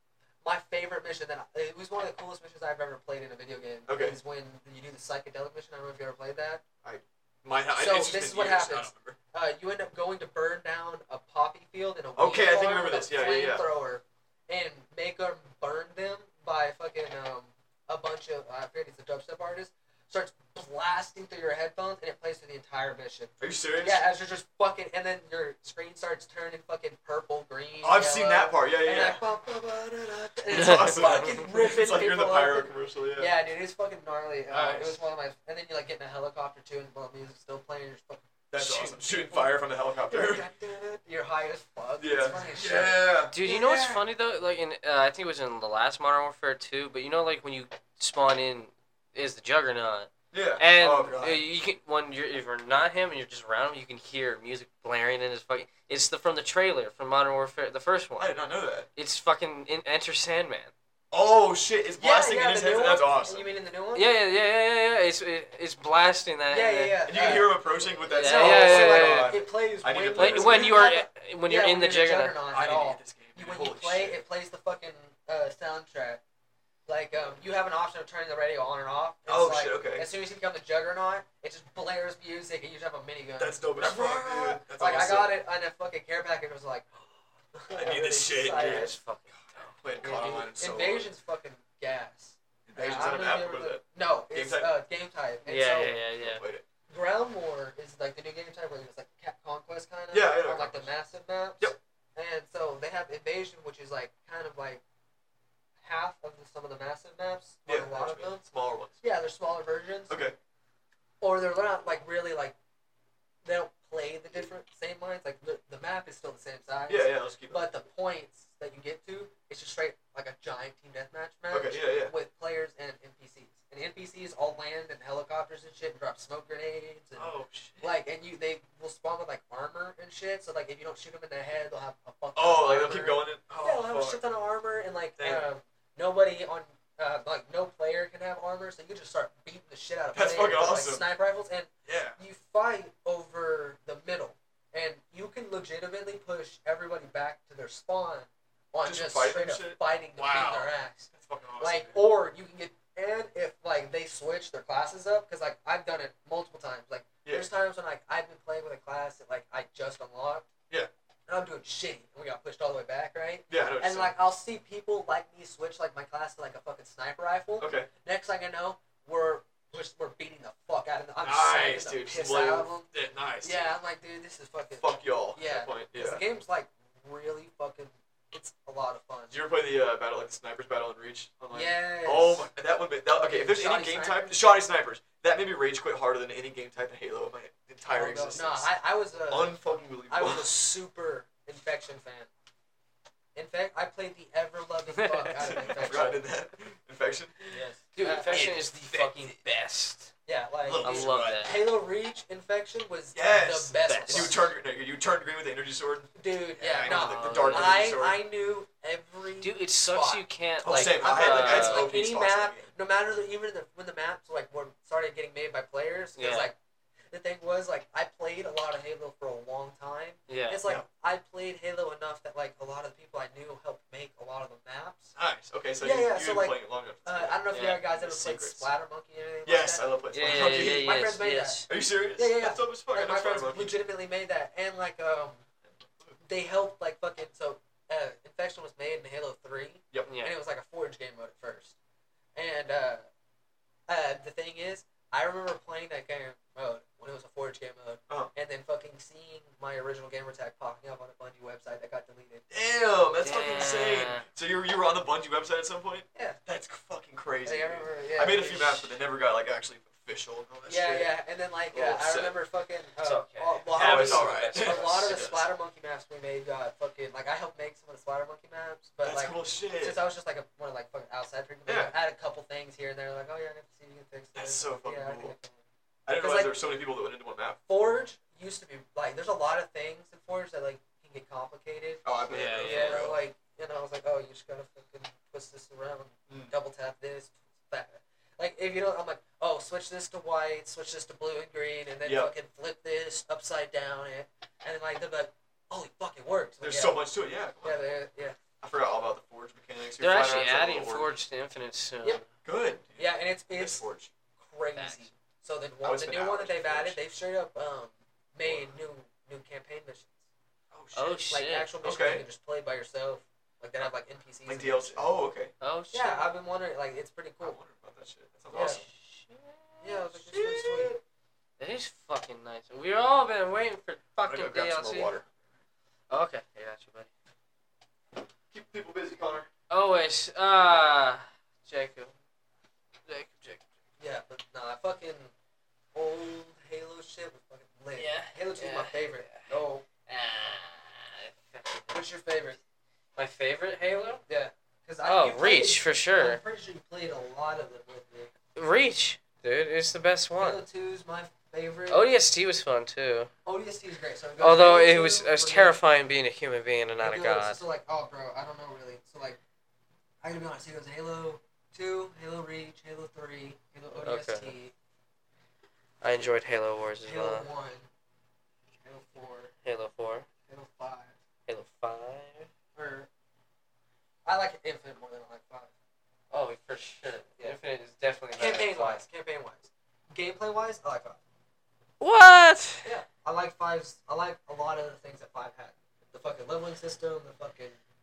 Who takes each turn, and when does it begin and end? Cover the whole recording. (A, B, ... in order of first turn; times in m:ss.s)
0:00.4-0:06.6 A
0:03.9-0:04.2 B
0:06.8-0:09.2 B
0:07.8-0:43.9 A
0:12.2-0:13.7 B
0:23.4-0:24.0 B
0:27.8-0:29.2 B
0:30.5-0:33.3 B
0:30.6-0:31.0 C
0:34.5-0:35.0 C
0:38.5-0:40.5 B
0:42.0-0:44.0 B
0:43.3-0:58.3 C
0:50.3-0:51.4 B
0:58.2-0:58.9 B
0:58.9-1:00.7 C
1:01.1-1:03.5 B
1:02.0-1:04.1 A
1:03.9-1:07.4 C
1:06.5-1:07.6 A
1:07.1-1:10.9 B
1:08.1-1:09.3 C
1:08.1-1:16.2 A
1:10.1-1:12.4 C
1:12.5-1:14.2 B
1:16.9-1:28.9 A
1:19.3-1:20.1 B
1:23.4-1:25.4 B
1:27.7-1:29.0 B
1:28.4-1:29.7 C
1:29.5-1:31.1 B
1:30.0-1:36.0 A
1:32.7-1:34.7 B
1:35.4-1:36.4 C
1:36.2-1:36.6 B
1:36.9-1:44.8 A
1:40.1-1:40.9 B
1:45.8-1:48.4 A
1:47.6-1:49.0 B
1:49.0-1:50.2 A
1:50.1-1:50.3 B
1:51.2-1:52.5 A
1:53.4-2:31.1 A
1:56.9-1:57.6 B
2:01.5-2:02.1 B
2:07.2-2:08.0 B
2:12.4-2:14.2 B
2:15.2-2:15.5 B
2:20.1-2:21.1 B
2:21.8-2:22.2 B
2:28.8-2:32.1 B
2:31.6-2:40.5 A
2:41.3-2:52.9 A
2:43.5-2:44.1 B
2:47.6-2:47.9 B
2:51.2-2:53.7 B
2:53.4-2:59.3 A
2:54.8-2:56.2 B
2:59.3-3:08.7 B
3:01.5-3:02.5 A
3:03.1-3:04.3 A
3:07.9-3:12.3 A
3:09.3-3:10.5 B
3:13.3-3:16.2 A
3:14.9-3:15.6 C
3:15.4-3:17.4 B
3:17.5-3:19.2 A
3:17.5-3:20.1 C
3:18.3-3:19.3 B
3:20.2-3:24.4 A
3:20.6-3:21.7 B
3:20.8-3:21.5 C
3:23.1-3:28.2 B
3:23.8-3:24.4 C
3:26.2-3:36.5 A
3:26.7-3:27.8 C
3:29.4-3:31.9 C
3:30.6-3:32.7 B
3:36.2-3:36.5 C
3:37.1-3:45.2 A
3:40.3-3:40.6 C
3:45.2-3:48.7 B
3:45.8-3:55.4 A
3:47.5-3:47.8 C
3:49.4-3:50.9 B
3:50.1-3:51.6 C
3:51.7-3:53.8 B
3:55.7-3:56.2 B
3:56.2-4:01.8 A
4:00.1-4:00.3 C
4:02.3-4:03.0 A
4:03.9-4:12.4 A
4:12.5-4:21.1 B
4:13.2-4:14.2 C
4:17.4-4:18.9 A
4:20.7-4:35.6 A
4:21.7-4:22.4 B
4:23.0-4:25.4 C
4:23.7-4:25.4 B
4:29.0-4:30.0 B
4:31.6-4:31.9 B
4:34.3-4:35.3 B
4:36.0-4:37.6 B
4:36.1-4:36.5 A
4:37.7-4:57.0 A
4:42.0-4:43.2 B
4:42.3-4:43.1 C
4:52.0-4:52.3 B
4:56.6-4:57.8 B
4:57.6-4:58.4 A
4:58.6-5:01.1 B
5:00.0-5:02.2 C
5:02.4-5:04.1 B
5:03.0-5:03.8 A
5:04.4-5:10.2 A
5:04.8-5:05.1 C
5:05.8-5:07.0 B
5:08.4-5:08.7 B
5:10.7-5:11.3 B
5:10.9-5:11.7 C
5:11.3-5:15.1 A
5:11.8-5:12.2 B
5:14.4-5:15.5 B
5:15.6-5:16.3 C
5:15.9-5:17.6 A
5:17.4-5:18.8 B
5:18.5-5:18.8 A
5:18.5-5:20.4 C
5:19.8-5:20.9 A
5:20.3-5:20.8 B
5:21.6-5:25.1 C
5:24.2-5:25.3 B
5:26.1-5:27.1 C
5:28.5-5:29.5 B
5:29.7-5:32.1 C
5:33.0-5:33.6 C
5:34.0-5:35.3 A
5:35.9-5:39.8 A
5:37.9-5:42.0 C
5:41.9-5:42.6 A
5:43.2-5:44.2 C
5:44.3-5:48.3 A
5:45.0-5:46.4 C
5:48.5-5:50.6 C
5:50.4-5:52.1 A
5:51.9-5:53.3 C
5:53.4-5:55.8 A
5:54.4-5:57.6 C
5:57.0-5:59.4 A
6:00.2-6:04.7 A
6:04.0-6:04.5 C
6:06.0-6:07.5 C
6:07.0-6:07.9 A
6:08.8-6:09.5 A
6:09.6-6:10.3 C
6:10.4-6:11.2 A
6:11.5-6:12.5 C
6:12.7-6:13.1 A
6:14.2-6:15.7 A
6:16.3-6:19.0 C
6:18.3-6:21.2 A
6:22.0-6:22.9 C
6:22.8-6:27.8 A